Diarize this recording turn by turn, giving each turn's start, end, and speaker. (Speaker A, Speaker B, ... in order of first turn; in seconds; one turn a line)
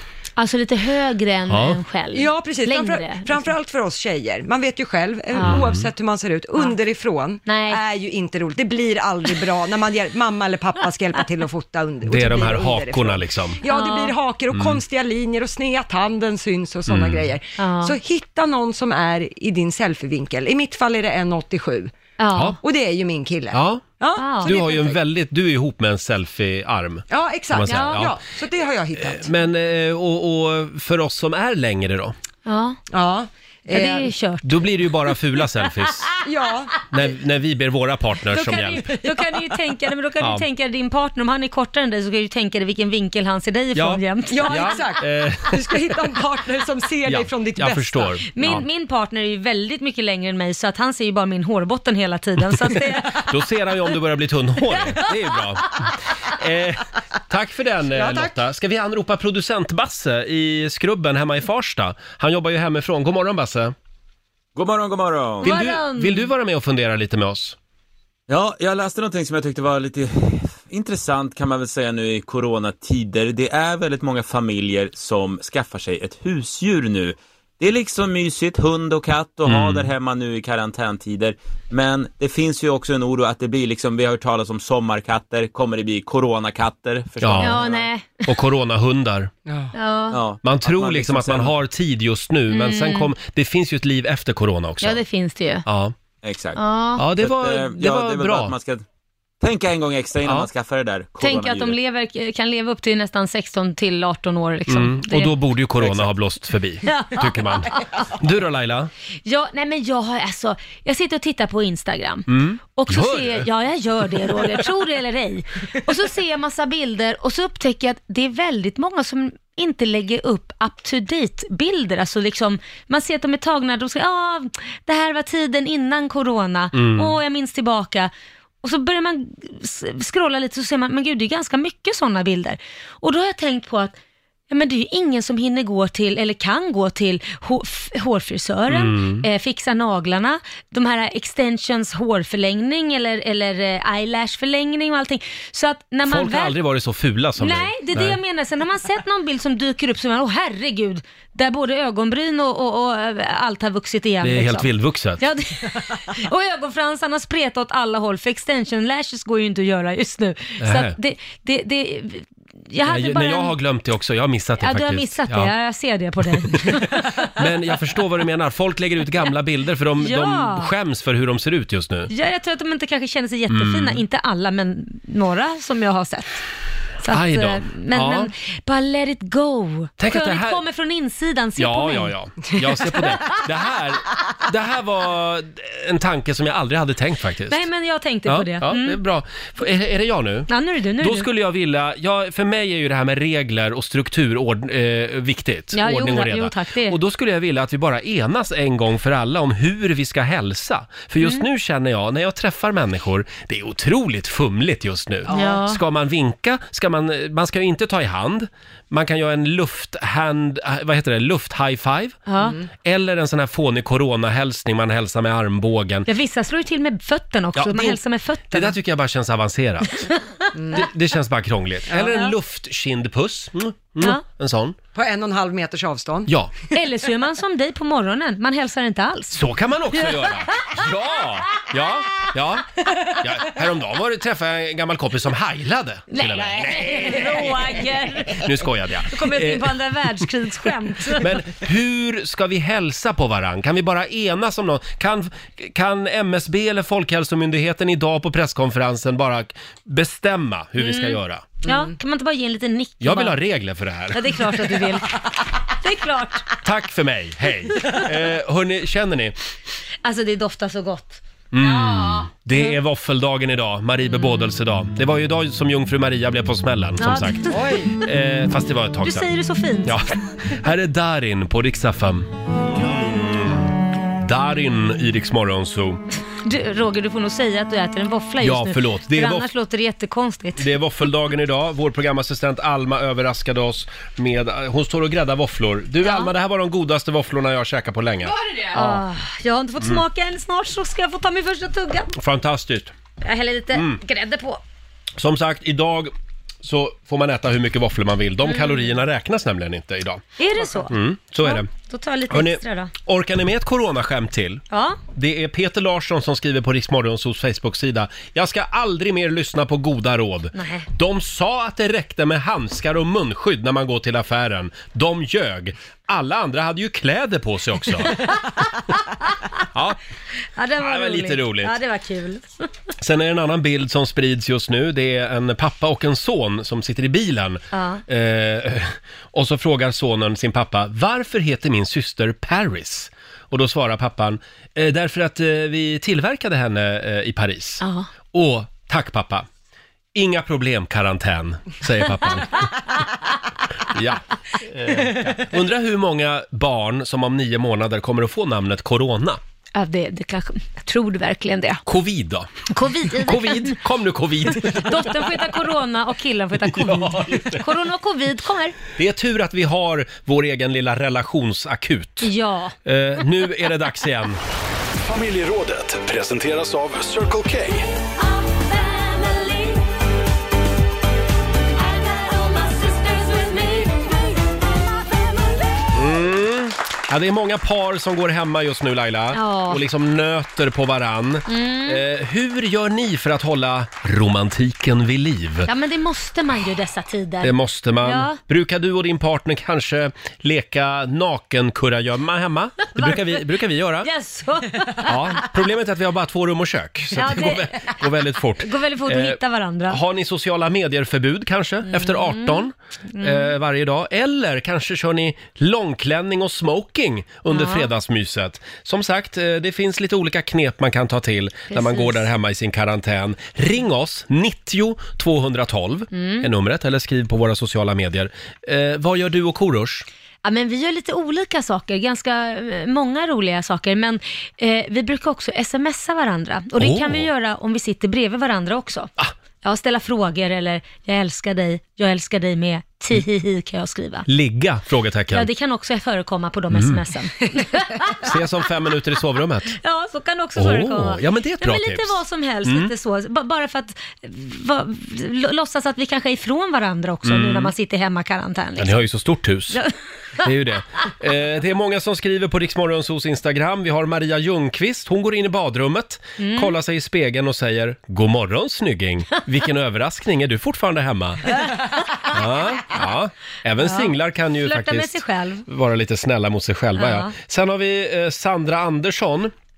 Speaker A: 0.4-3.5
Speaker B: 1.5-1.8
Speaker C: 2.1-21.9
Speaker A: 5.3-5.6
Speaker B: 5.4-5.9
Speaker A: 7.5-7.8
Speaker B: 12.0-13.6
Speaker A: 13.6-14.2
Speaker B: 14.5-14.8
Speaker B: 16.9-17.3
Speaker A: 17.6-18.0
Speaker A: 22.2-22.6
Speaker C: 22.6-25.0
Speaker B: 23.5-23.8
Speaker A: 24.1-24.5
Speaker B: 24.4-28.1
Speaker C: 27.1-29.3
Speaker A: 27.6-28.0
Speaker B: 29.0-32.1
Speaker A: 32.5-32.8
Speaker C: 32.9-34.1
Speaker A: 33.7-34.6
Speaker B: 34.4-36.1
Speaker C: 36.2-36.7
Speaker B: 36.9-38.9
Speaker A: 38.3-44.9
Speaker B: 43.7-45.7
Speaker C: 44.3-48.2
Speaker B: 47.0-48.6
Speaker A: 48.3-53.3
Speaker B: 53.1-63.7
Speaker C: 57.9-58.3
Speaker D: 64.5-65.5
Speaker A: 65.4-66.3
Speaker B: 65.4-67.5
Speaker D: 68.3-87.9
Speaker B: 79.5-79.9
Speaker B: 87.2-87.6
Speaker A: 87.4-88.2
Speaker B: 88.2-89.3
Speaker C: 89.5-89.7
Speaker A: 89.7-90.2
Speaker D: 90.1-91.5
Speaker B: 90.4-95.0
Speaker A: 92.5-93.1
Speaker A: 94.8-95.7
Speaker B: 95.7-95.9
Speaker D: 96.2-96.6
Speaker A: 96.5-97.0
Speaker B: 97.0-98.5
Speaker D: 97.2-98.8
Speaker D: 99.4-101.8
Speaker A: 101.2-105.4
Speaker B: 104.7-108.9
Speaker A: 106.9-107.9
Speaker A: 109.2-128.1
Speaker B: 112.3-113.5
Speaker B: 126.7-127.1
Speaker A: 128.6-133.9
Speaker A: 134.5-146.5
Speaker B: 138.7-139.3
Speaker B: 146.0-148.2
Speaker A: 147.4-163.5
Speaker B: 154.2-155.2
Speaker B: 160.6-160.9
Speaker B: 162.9-165.5
Speaker A: 164.6-167.3
Speaker B: 166.5-172.1
Speaker A: 170.0-170.7
Speaker A: 172.1-176.4
Speaker B: 173.5-174.0
Speaker A: 177.0-182.1
Speaker B: 177.1-178.3
Speaker B: 180.0-180.6
Speaker B: 181.6-187.6
Speaker A: 187.5-189.0
Speaker B: 188.2-190.5
Speaker A: 190.5-191.3
Speaker B: 191.0-212.2
Speaker A: 195.7-197.0
Speaker A: 205.3-205.8
Speaker A: 212.3-212.6
Speaker C: 212.4-212.7
Speaker B: 212.8-216.1
Speaker A: 216.1-218.8
Speaker B: 217.5-218.0
Speaker B: 218.5-220.1
Speaker C: 220.5-220.9
Speaker B: 220.7-224.8
Speaker C: 224.9-226.3
Speaker B: 226.3-226.5
Speaker A: 226.7-229.4
Speaker B: 229.3-237.6
Speaker A: 229.9-230.4
Speaker A: 236.1-238.5
Speaker B: 238.3-239.8
Speaker A: 239.1-241.3
Speaker B: 241.2-251.6
Speaker A: 250.8-253.4
Speaker C: 251.6-251.9
Speaker B: 253.0-254.2
Speaker A: 254.1-256.5
Speaker B: 256.6-259.4
Speaker A: 260.0-261.2
Speaker B: 261.5-269.3
Speaker A: 267.0-267.9
Speaker C: 267.5-267.9
Speaker A: 269.0-270.0
Speaker B: 269.8-276.0
Speaker A: 276.4-280.7
Speaker B: 278.4-279.5
Speaker B: 280.6-289.0
Speaker A: 286.0-286.3
Speaker A: 288.5-292.1
Speaker B: 292.1-292.9
Speaker A: 293.2-294.6
Speaker B: 293.7-294.0
Speaker B: 295.2-296.1
Speaker B: 296.6-300.2
Speaker A: 298.4-298.9
Speaker A: 300.4-302.9
Speaker B: 300.9-301.7
Speaker B: 302.3-304.6
Speaker A: 304.7-305.0
Speaker B: 305.1-318.2
Speaker A: 310.6-310.9
Speaker B: 319.7-320.0
Speaker A: 320.6-322.4
Speaker B: 320.8-321.7
Speaker B: 323.0-339.4
Speaker A: 327.7-328.0
Speaker A: 337.8-338.1
Speaker B: 340.1-342.7
Speaker B: 343.9-349.4
Speaker A: 349.7-351.8
Speaker B: 351.9-355.1
Speaker A: 352.7-353.8
Speaker A: 354.6-358.8
Speaker B: 356.6-357.6
Speaker B: 358.9-362.3
Speaker A: 362.2-362.7
Speaker B: 362.8-364.4
Speaker E: 365.0-367.9
Speaker A: 368.3-369.9
Speaker A: 371.8-374.4
Speaker B: 375.9-385.7
Speaker A: 379.3-379.8
Speaker A: 381.5-382.0
Speaker A: 385.7-388.4
Speaker B: 387.4-394.1
Speaker A: 392.9-393.4
Speaker A: 394.0-395.4
Speaker B: 395.1-420.1
Speaker A: 397.1-398.0
Speaker A: 398.6-400.0
Speaker A: 401.9-403.5
Speaker A: 407.5-407.9
Speaker A: 411.7-412.2
Speaker A: 416.1-416.5
Speaker A: 420.4-429.1
Speaker B: 426.8-427.3
Speaker A: 429.6-434.3
Speaker B: 434.3-435.5
Speaker A: 435.3-438.4
Speaker B: 436.7-437.0
Speaker B: 438.2-439.8
Speaker A: 439.8-449.0
Speaker B: 440.6-442.9
Speaker B: 447.2-447.7
Speaker B: 448.8-449.8
Speaker B: 450.4-461.6
Speaker A: 456.4-456.7
Speaker A: 461.5-462.8
Speaker B: 462.2-469.5
Speaker A: 463.8-465.6
Speaker A: 467.0-467.3